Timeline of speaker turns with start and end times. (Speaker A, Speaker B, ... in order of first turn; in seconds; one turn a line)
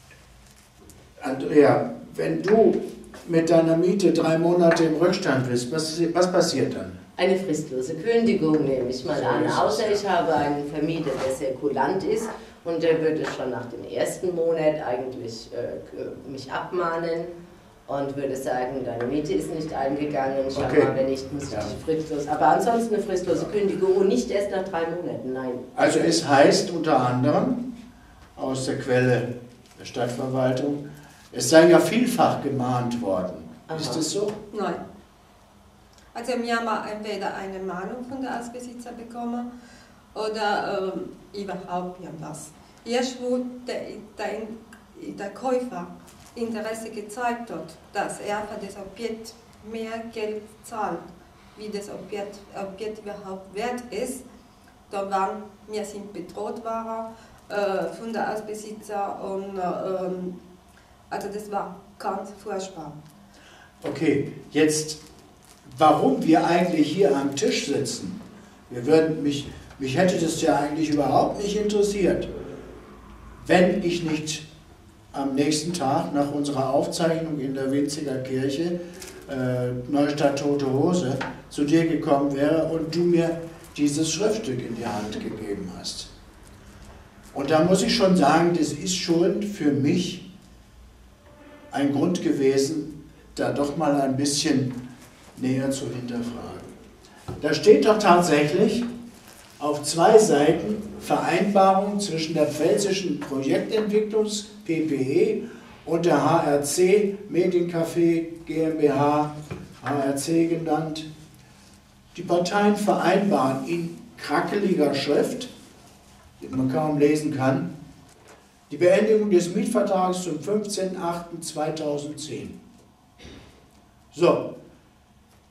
Speaker A: 1.2-7.0
Speaker B: 7.2-17.3
Speaker A: 9.1-10.0
Speaker B: 17.9-25.7
Speaker A: 20.5-20.9
Speaker A: 25.7-27.6
Speaker A: 28.4-34.4
Speaker B: 33.7-34.0
Speaker C: 34.5-34.8
Speaker C: 36.1-39.5
Speaker C: 40.1-51.0
Speaker C: 51.5-54.2
Speaker C: 54.9-60.4
Speaker C: 61.1-63.0
Speaker A: 63.8-65.0
Speaker A: 65.6-72.3
Speaker A: 73.4-74.4
Speaker A: 75.1-86.1
Speaker A: 87.3-90.2
Speaker A: 91.7-94.8
Speaker A: 95.3-96.7
Speaker A: 97.4-98.9
Speaker A: 99.6-111.1
Speaker A: 112.1-115.5
Speaker A: 116.4-117.7
Speaker A: 118.7-122.6
Speaker A: 124.1-124.5